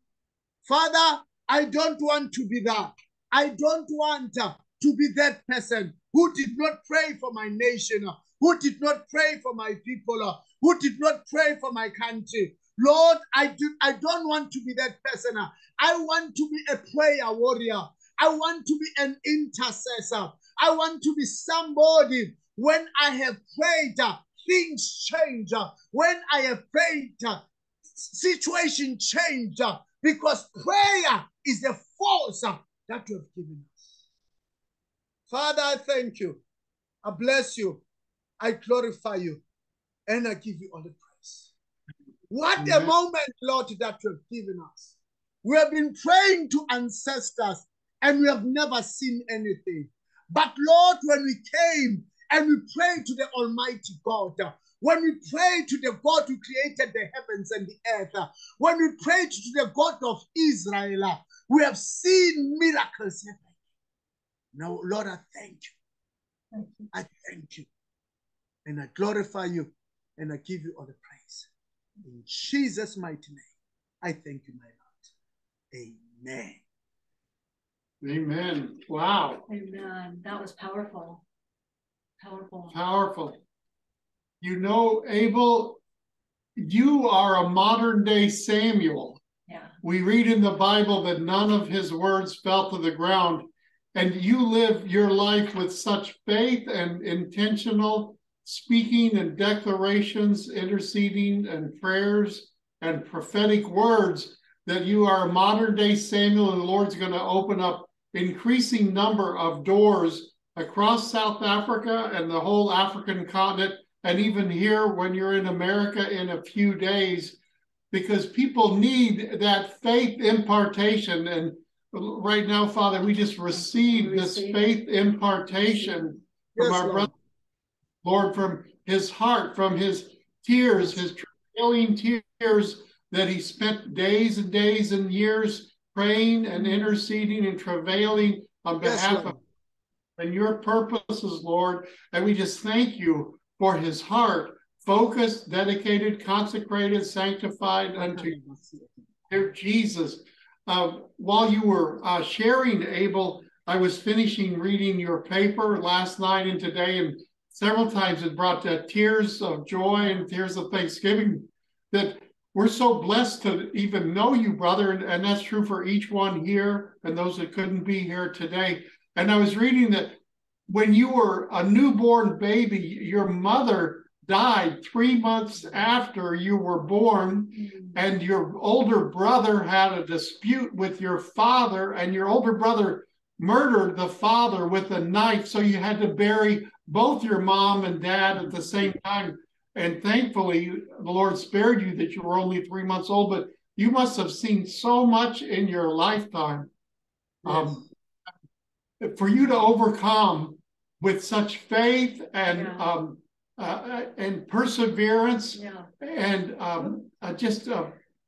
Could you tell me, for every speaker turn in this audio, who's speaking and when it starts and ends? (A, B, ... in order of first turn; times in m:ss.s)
0:00.6-0:27.4 A
0:27.9-0:34.0 A
0:35.3-0:36.4 A
0:37.0-0:37.8 A
0:38.4-0:39.4 A
0:40.1-0:41.5 A
0:42.3-1:03.5 A
0:42.6-0:42.9 B
1:04.5-1:05.7 A
1:06.5-1:06.9 C
1:06.9-1:07.7 A
1:08.6-1:11.5 A
1:12.0-1:13.5 A
1:14.0-1:15.1 A
1:15.7-1:16.6 A
1:18.0-1:19.4 B
1:19.5-1:21.2 C
1:22.2-1:22.8 C
1:22.7-1:23.4 B
1:24.4-1:25.8 B
1:26.6-1:29.2 B
1:29.8-1:57.4 B
1:57.9-2:07.1 B
2:03.5-2:04.6 C
2:05.7-2:06.0 C
2:06.6-2:07.1 A
2:08.0-2:19.3 B
2:16.6-2:16.9 C
2:18.8-2:19.4 A
2:20.2-2:28.3 B
2:28.0-2:29.0 A
2:29.3-2:50.2 B
2:50.7-3:16.7 B
2:57.5-2:58.0 C
3:17.4-3:17.8 B
3:17.4-3:17.8 A
3:19.0-3:28.0 B
3:22.5-3:22.9 C
3:25.5-3:25.9 C